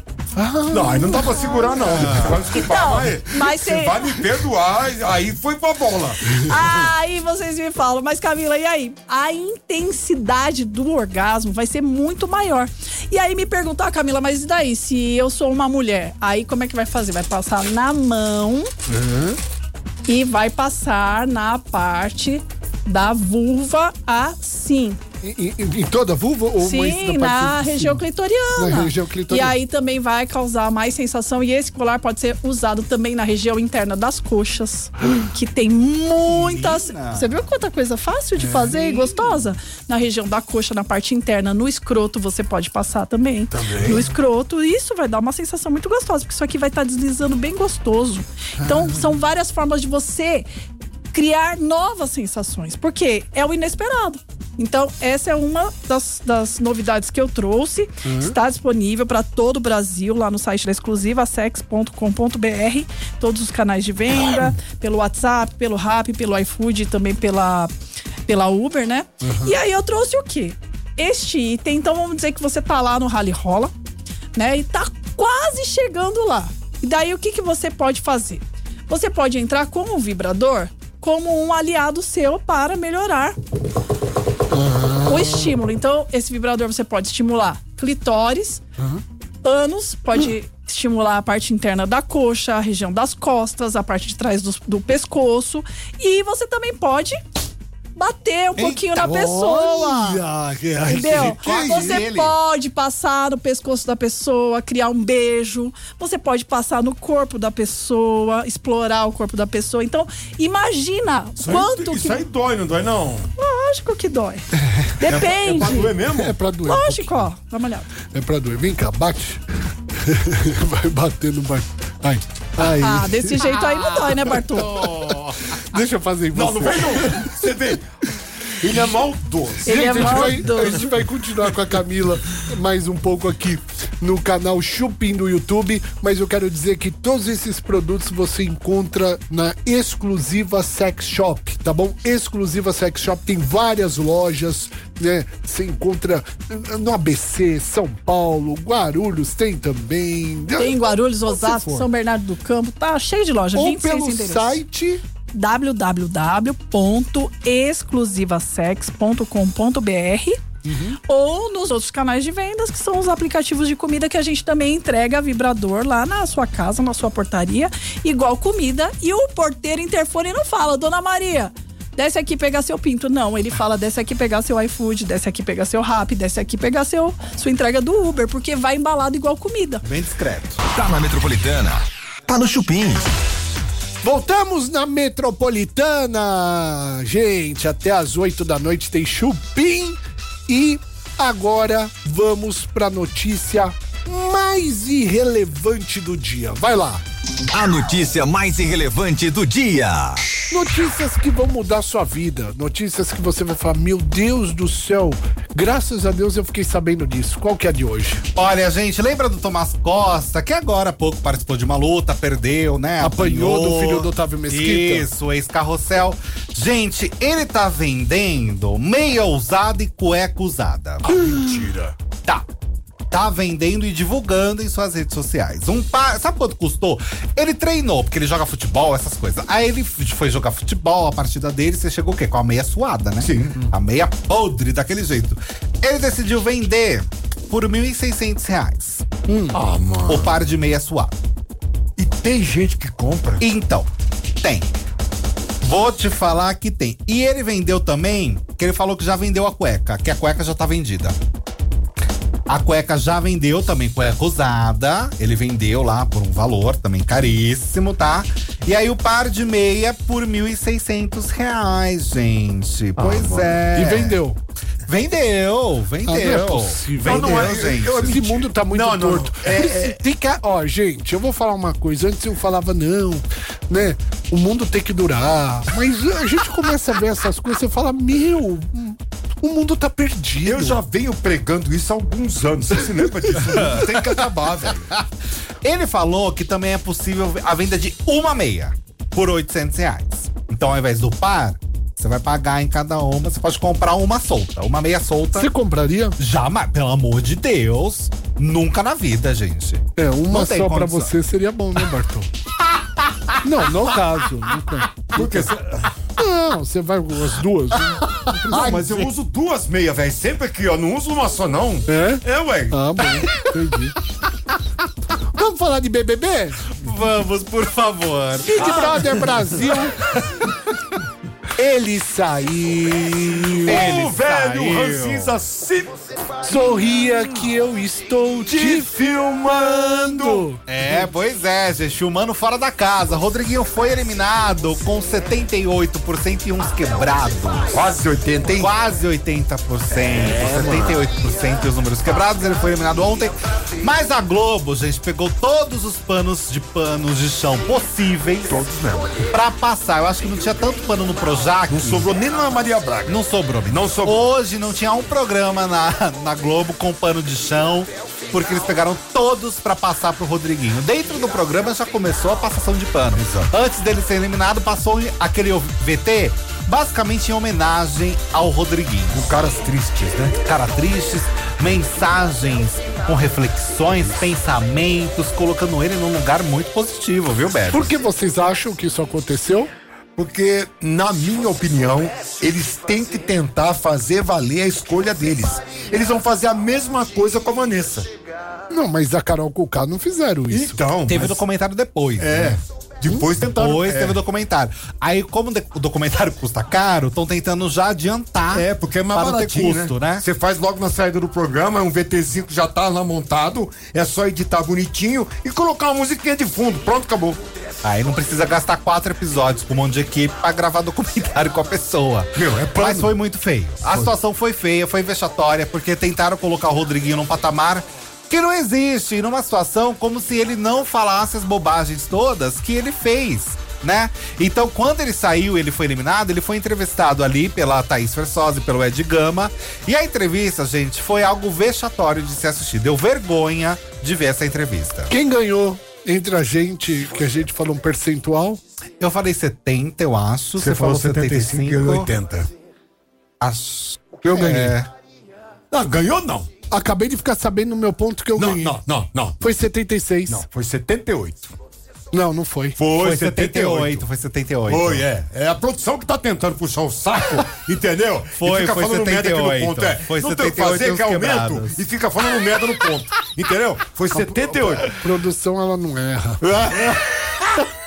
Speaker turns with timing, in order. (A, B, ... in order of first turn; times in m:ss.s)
0:00.4-0:02.4 A
0:00.7-0:06.6 B
0:01.2-0:04.2 C
0:02.0-0:02.5 D
0:06.3-0:18.7 C
0:18.9-0:19.4 A
0:20.1-0:25.0 C
0:25.2-0:28.0 A
0:26.6-0:50.5 C
0:28.6-0:29.6 A
0:36.3-0:37.3 D
0:38.4-0:39.4 A
0:43.6-0:43.9 B
0:43.6-0:44.0 A
0:48.6-0:49.1 A
0:51.1-1:07.7 C
0:58.0-0:58.4 A
1:08.3-1:13.7 C
1:09.2-1:09.6 A
1:14.4-1:23.4 C
1:24.5-1:25.5 A
1:25.0-1:28.6 C
1:29.4-1:37.2 C
1:38.0-1:39.9 C
1:38.6-1:40.2 D
1:39.0-1:42.0 A
1:40.9-1:52.3 C
1:40.9-1:42.3 D
1:51.4-1:53.3 B
1:53.4-1:55.9 C
1:55.0-1:56.4 B
1:56.1-1:57.3 A
1:56.7-1:57.9 C
1:58.1-1:59.4 A
2:00.0-2:07.5 A
2:02.6-2:04.7 C
2:06.3-2:07.9 B
2:08.6-2:10.8 B
2:09.6-2:31.9 A
2:09.6-2:10.9 C
2:30.6-2:34.6 C
2:33.5-2:35.0 A
2:35.3-2:40.4 C
2:40.6-2:41.0 A
2:41.1-2:59.8 C
2:59.8-3:00.6 D
3:00.7-3:03.0 E
3:04.0-3:17.0 A
3:17.5-3:20.3 E
3:20.5-3:28.2 A
3:28.4-3:41.2 D
3:33.0-3:35.1 A
3:41.1-3:42.0 B
3:41.2-3:41.4 A
3:43.1-3:59.1 D
3:53.2-3:53.6 B
3:59.3-4:00.4 B
4:00.1-4:01.2 D
4:02.0-4:03.4 B
4:03.4-4:04.7 D
4:05.6-4:11.2 D
4:12.5-4:24.2 D
4:23.0-4:23.5 B
4:23.7-4:24.4 A
4:24.9-4:28.2 D
4:26.1-4:40.8 A
4:27.0-4:30.0 B
4:40.4-4:44.9 B
4:45.6-4:55.5 D
4:55.4-4:56.2 A
4:56.2-5:01.1 D
5:00.0-5:02.3 A
5:03.4-5:05.5 A
5:05.2-5:06.0 B
5:06.2-5:09.1 A
5:08.4-5:12.8 B
5:11.9-5:14.0 A
5:15.4-5:16.6 A
5:16.8-5:19.0 D
5:18.4-5:20.0 A
5:21.6-5:23.9 A
5:23.6-5:25.9 B
5:23.6-5:25.3 D
5:26.4-5:28.9 A
5:28.5-5:30.5 B
5:30.0-5:30.6 A
5:30.7-5:37.6 D
5:37.7-5:38.7 B
5:38.5-5:48.6 D
5:40.4-5:41.0 B
5:48.5-5:49.2 B
5:49.3-5:52.2 D
5:51.7-5:54.2 B
5:53.1-6:09.4 D
6:03.2-6:03.5 B
6:09.1-6:10.3 B
6:10.4-6:17.9 D
6:17.7-6:19.7 A
6:20.2-6:28.1 B
6:28.7-6:30.8 A
6:30.5-6:31.4 B
6:31.1-6:32.6 D
6:32.2-6:34.2 B
6:33.6-6:40.2 D
6:38.5-6:47.4 B
6:47.8-7:15.1 D
6:52.4-6:53.1 B
7:15.1-7:18.6 A
7:19.0-7:22.1 D
7:20.6-7:22.5 B
7:23.4-7:24.9 D
7:24.2-7:24.7 A
7:25.7-7:26.5 B
7:26.7-7:28.8 A
7:28.4-7:29.4 B
7:29.4-7:30.5 A
7:30.3-7:31.5 B
7:32.1-7:32.8 A
7:32.8-7:34.0 B
7:33.0-7:35.0 D
7:34.7-7:44.9 B
7:38.3-7:41.8 D
7:44.1-7:46.4 A
7:46.4-7:47.4 B